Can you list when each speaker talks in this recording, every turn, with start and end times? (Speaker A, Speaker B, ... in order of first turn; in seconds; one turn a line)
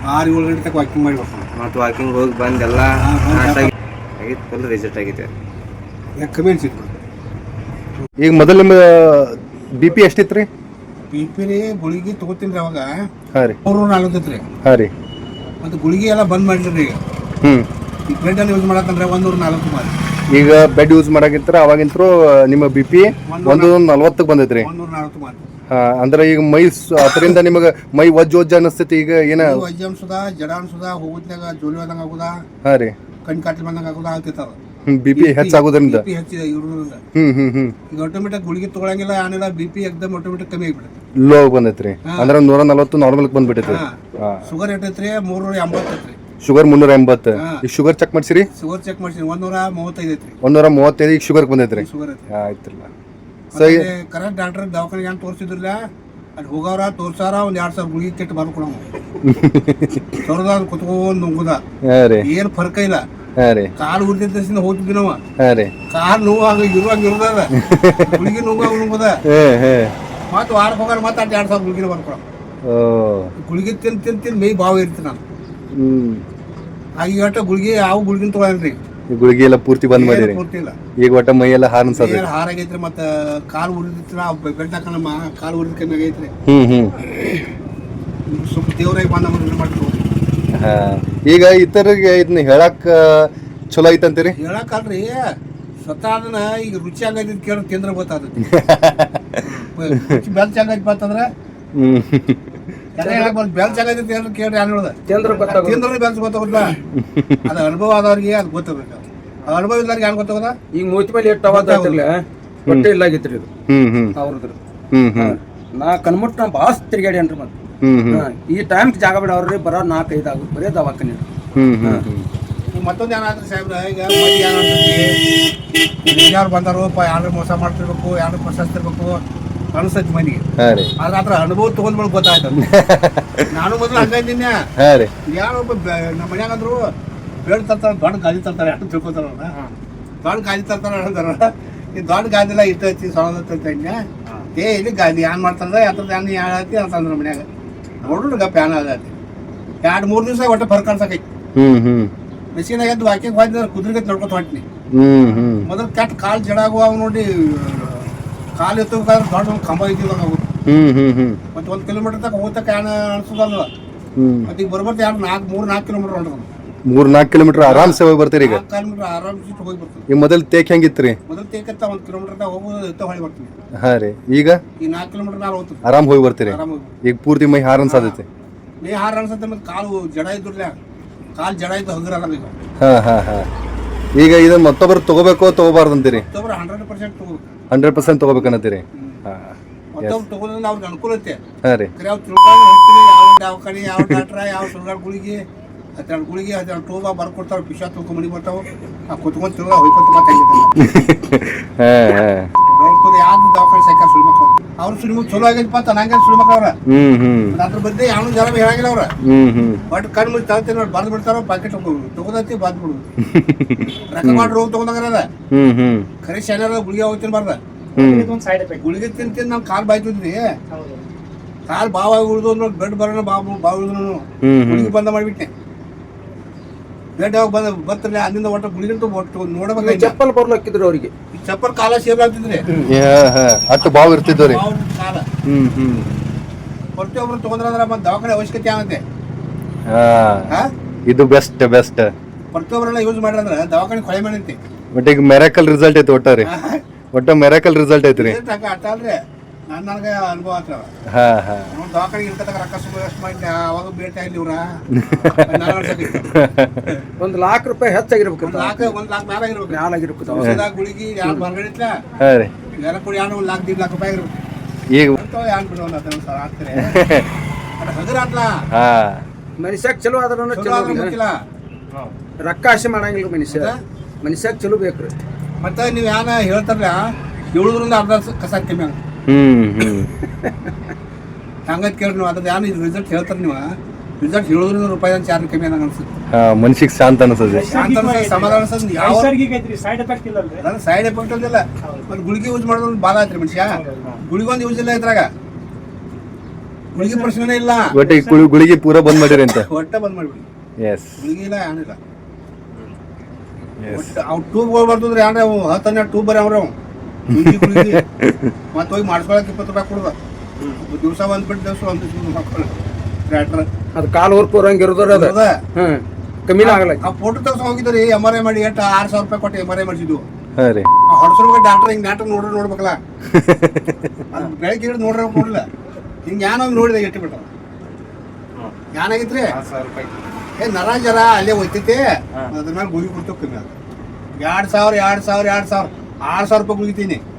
Speaker A: 0.1-1.4
Speaker B: 1.5-5.3
Speaker A: 3.0-3.7
Speaker A: 6.2-7.0
Speaker C: 8.2-10.5
Speaker A: 11.1-12.9
Speaker A: 13.6-14.4
Speaker C: 14.6-14.9
Speaker A: 15.6-17.0
Speaker A: 18.1-19.9
Speaker C: 20.3-24.7
Speaker A: 23.3-23.7
Speaker A: 24.6-25.4
Speaker C: 25.7-29.6
Speaker A: 29.4-32.3
Speaker C: 32.6-32.9
Speaker A: 33.2-34.5
Speaker C: 34.9-36.0
Speaker A: 35.1-37.0
Speaker C: 37.1-37.8
Speaker A: 37.9-40.9
Speaker C: 41.2-44.5
Speaker A: 42.0-42.3
Speaker A: 43.6-46.2
Speaker C: 46.4-48.5
Speaker A: 47.4-47.6
Speaker A: 48.5-50.4
Speaker C: 50.4-52.9
Speaker A: 51.7-52.3
Speaker A: 53.5-55.8
Speaker C: 53.5-53.9
Speaker A: 56.4-58.8
Speaker C: 59.2-60.2
Speaker A: 60.2-61.6
Speaker C: 61.9-62.2
Speaker A: 62.2-63.0
Speaker C: 63.4-63.7
Speaker A: 63.8-65.2
Speaker C: 65.4-65.7
Speaker A: 65.9-69.2
Speaker C: 67.5-69.9
Speaker A: 70.3-72.2
Speaker C: 72.6-73.3
Speaker A: 73.4-75.2
Speaker C: 75.7-76.2
Speaker A: 77.0-78.8
Speaker C: 79.1-80.4
Speaker A: 79.9-80.8
Speaker C: 81.0-82.3
Speaker A: 81.9-86.3
Speaker C: 86.5-86.9
Speaker A: 88.3-90.0
Speaker C: 90.5-94.3
Speaker A: 94.3-95.2
Speaker A: 95.8-98.5
Speaker C: 98.5-99.5
Speaker B: 99.4-99.7
Speaker A: 99.7-101.2
Speaker C: 101.8-102.6
Speaker A: 103.0-106.8
Speaker D: 103.0-103.3
Speaker D: 105.1-105.9
Speaker C: 106.9-107.5
Speaker A: 107.4-110.5
Speaker D: 110.7-113.5
Speaker A: 111.5-112.0
Speaker C: 113.7-114.1
Speaker D: 114.2-114.6
Speaker C: 114.9-115.3
Speaker D: 115.1-117.5
Speaker C: 117.8-118.2
Speaker D: 118.1-121.3
Speaker C: 121.5-122.3
Speaker A: 122.7-125.1
Speaker A: 126.0-129.2
Speaker A: 129.7-130.4
Speaker C: 130.6-130.9
Speaker A: 131.0-132.7
Speaker C: 132.6-133.5
Speaker A: 133.5-134.6
Speaker C: 134.8-135.1
Speaker A: 135.3-136.8
Speaker A: 137.4-139.5
Speaker A: 140.2-143.9
Speaker A: 144.6-147.4
Speaker A: 148.0-149.1
Speaker A: 149.8-151.2
Speaker C: 151.6-152.1
Speaker A: 152.5-154.6
Speaker C: 154.9-155.7
Speaker A: 155.6-160.5
Speaker C: 160.7-161.4
Speaker A: 161.5-163.7
Speaker C: 164.2-164.5
Speaker A: 164.5-166.5
Speaker C: 166.9-168.6
Speaker A: 167.5-170.1
Speaker C: 170.1-171.2
Speaker A: 171.3-173.5
Speaker C: 173.8-174.6
Speaker A: 174.8-175.8
Speaker C: 175.8-178.2
Speaker A: 176.4-176.9
Speaker A: 177.8-178.2
Speaker A: 178.8-180.8
Speaker A: 181.4-182.6
Speaker C: 182.8-183.5
Speaker C: 184.2-186.2
Speaker A: 186.1-189.2
Speaker C: 187.7-190.2
Speaker A: 189.9-191.4
Speaker C: 191.6-191.9
Speaker A: 191.9-195.4
Speaker C: 193.9-194.2
Speaker A: 195.9-200.7
Speaker C: 200.8-202.5
Speaker A: 202.7-206.7
Speaker C: 206.9-207.6
Speaker A: 207.5-209.1
Speaker C: 209.2-209.8
Speaker A: 209.9-213.1
Speaker C: 213.3-214.5
Speaker A: 214.1-215.3
Speaker C: 215.5-216.1
Speaker A: 216.2-217.6
Speaker C: 217.9-218.3
Speaker E: 217.9-218.8
Speaker A: 218.8-220.4
Speaker E: 220.7-221.1
Speaker A: 221.7-225.5
Speaker C: 224.4-224.9
Speaker A: 227.2-230.1
Speaker D: 229.8-231.1
Speaker A: 231.3-232.7
Speaker C: 232.9-234.6
Speaker A: 233.8-235.2
Speaker C: 235.4-236.2
Speaker A: 237.0-239.0
Speaker C: 239.9-240.5
Speaker C: 241.1-242.1
Speaker A: 242.5-244.6
Speaker C: 244.9-246.5
Speaker A: 246.4-246.8
Speaker C: 247.1-248.4
Speaker A: 248.1-249.2
Speaker A: 249.7-250.9
Speaker C: 251.1-251.7
Speaker A: 251.7-256.3
Speaker C: 254.9-256.9
Speaker D: 257.2-258.9
Speaker A: 258.4-262.0
Speaker D: 259.7-260.6
Speaker C: 262.2-262.5
Speaker A: 262.8-264.4
Speaker C: 264.9-265.2
Speaker A: 265.1-267.0
Speaker C: 266.9-267.2
Speaker A: 267.8-268.6
Speaker C: 268.7-269.2
Speaker D: 269.6-271.1
Speaker A: 270.5-271.3
Speaker D: 272.4-275.2
Speaker A: 273.5-273.8
Speaker A: 275.6-277.0
Speaker A: 277.5-279.0
Speaker C: 279.3-280.1
Speaker D: 280.0-280.7
Speaker A: 281.7-283.6
Speaker A: 284.2-286.1
Speaker C: 286.3-287.7
Speaker E: 287.5-290.6
Speaker A: 287.6-289.3
Speaker A: 290.6-295.3
Speaker E: 291.8-292.1
Speaker E: 293.7-294.1
Speaker E: 296.9-297.3
Speaker A: 296.9-297.9
Speaker C: 297.9-299.7
Speaker E: 298.0-298.5
Speaker A: 299.4-300.4
Speaker C: 300.8-301.2
Speaker A: 301.2-302.0
Speaker C: 303.8-304.1
Speaker A: 303.9-306.7
Speaker A: 307.3-308.0
Speaker C: 307.3-308.5
Speaker A: 308.7-310.1
Speaker B: 310.6-310.8
Speaker A: 310.8-313.7
Speaker D: 313.9-317.1
Speaker A: 315.1-315.6
Speaker A: 316.6-320.2
Speaker C: 320.6-320.9
Speaker A: 321.1-323.0
Speaker C: 323.3-324.2
Speaker A: 324.3-325.7
Speaker A: 326.2-327.5
Speaker A: 328.9-329.5
Speaker B: 329.6-330.3
Speaker A: 330.6-333.7
Speaker A: 334.4-337.2